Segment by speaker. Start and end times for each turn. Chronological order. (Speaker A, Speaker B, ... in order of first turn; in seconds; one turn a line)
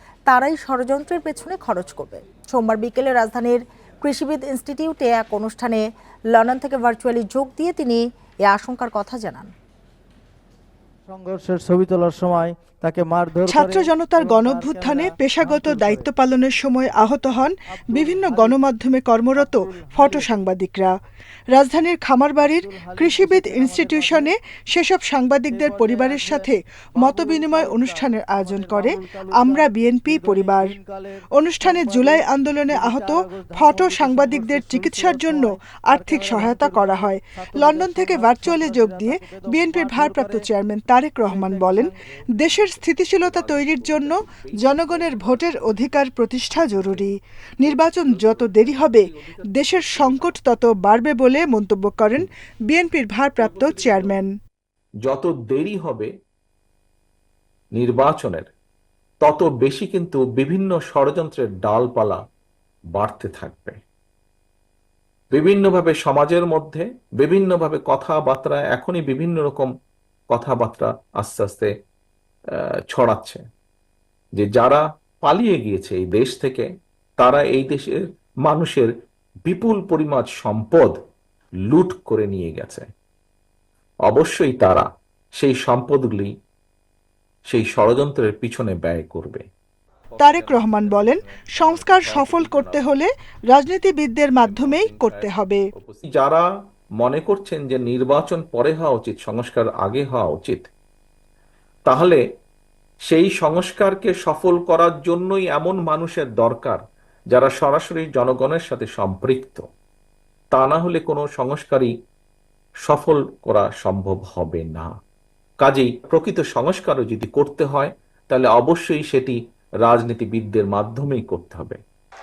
Speaker A: 0.3-9.5
Speaker B: 11.1-16.1
Speaker C: 13.5-20.9
Speaker B: 17.9-18.6
Speaker B: 19.4-20.3
Speaker C: 21.5-30.8
Speaker B: 22.4-24.3
Speaker B: 25.5-40.5
Speaker C: 31.3-54.3
Speaker B: 41.2-41.9
Speaker D: 42.4-47.1
Speaker D: 47.6-50.4
Speaker D: 53.4-54.2
Speaker D: 55.0-56.1
Speaker D: 57.8-58.5
Speaker D: 59.2-62.2
Speaker D: 63.0-63.8
Speaker D: 65.3-69.7
Speaker D: 70.3-71.7
Speaker D: 72.5-73.4
Speaker D: 74.4-78.9
Speaker D: 79.5-81.0
Speaker D: 81.7-82.9
Speaker D: 84.1-84.9
Speaker D: 85.4-86.3
Speaker D: 87.5-89.5
Speaker D: 90.1-92.8
Speaker C: 90.2-95.6
Speaker D: 94.4-96.5
Speaker D: 97.0-100.7
Speaker D: 101.9-102.2
Speaker D: 103.1-106.8
Speaker D: 107.3-109.7
Speaker D: 110.5-111.9
Speaker D: 112.9-114.9
Speaker D: 115.6-121.8